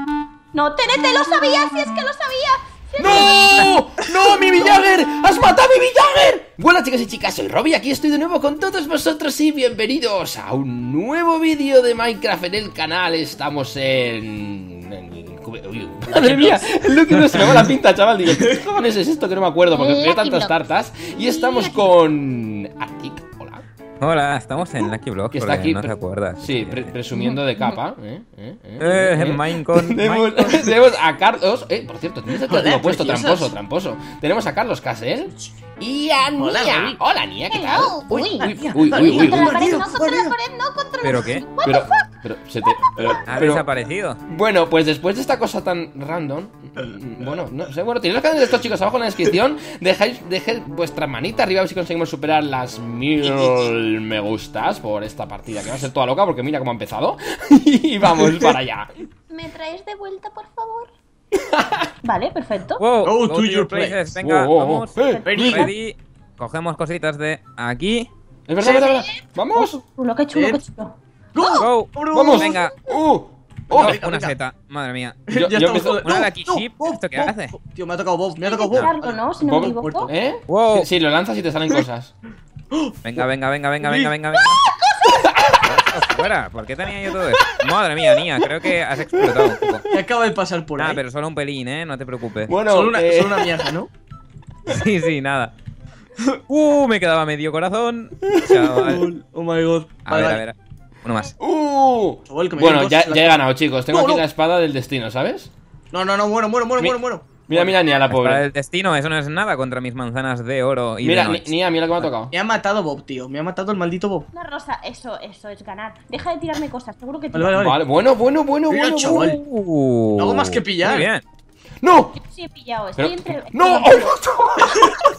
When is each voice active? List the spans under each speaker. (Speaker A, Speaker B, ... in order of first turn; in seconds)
Speaker A: 0.5-3.8, 19.7-20.6, 21.1-21.9, 27.1-27.8, 37.5-42.0, 42.8-43.1, 59.3-60.9, 62.0-62.8, 65.1-65.7, 68.6-71.6, 78.4-80.1, 114.3-117.6, 122.2-124.2
Speaker B: 3.0-23.6, 25.3-39.9, 41.6-43.6, 44.3-58.9, 61.4-61.9, 64.2-65.7, 68.5-69.8, 72.1-74.0, 75.3-76.0, 79.4-82.1, 85.1-85.7, 89.2-89.8, 92.5-93.6, 98.2-99.0, 101.4-105.5, 106.8-108.5, 111.0-112.3, 117.5-119.4, 121.8-122.2, 123.0-125.0
Speaker C: 16.1-17.6, 24.0-26.9, 28.8-30.6, 41.0-41.5, 43.3-44.2, 62.8-68.1, 71.6-72.8, 73.7-75.2, 76.0-77.6, 80.5-80.9, 83.0-84.6, 85.6-89.8, 90.8-92.5, 94.7-95.5, 96.5-99.0, 100.1-101.3, 108.1-112.1, 119.1-121.2
Speaker D: 18.3-18.6, 32.3-33.5, 36.4-37.0, 38.4-40.4, 53.2-53.7, 58.1-58.6, 63.0-64.2, 65.3-65.7, 70.3-70.6, 71.3-72.7, 73.7-74.4, 75.3-79.2, 79.8-80.1, 82.7-83.2, 83.8-84.1, 89.9-91.0, 92.7-93.9, 98.7-100.4, 102.3-104.2, 105.9-107.8, 112.3-114.3, 117.3-117.8, 118.7-119.4, 120.2-121.1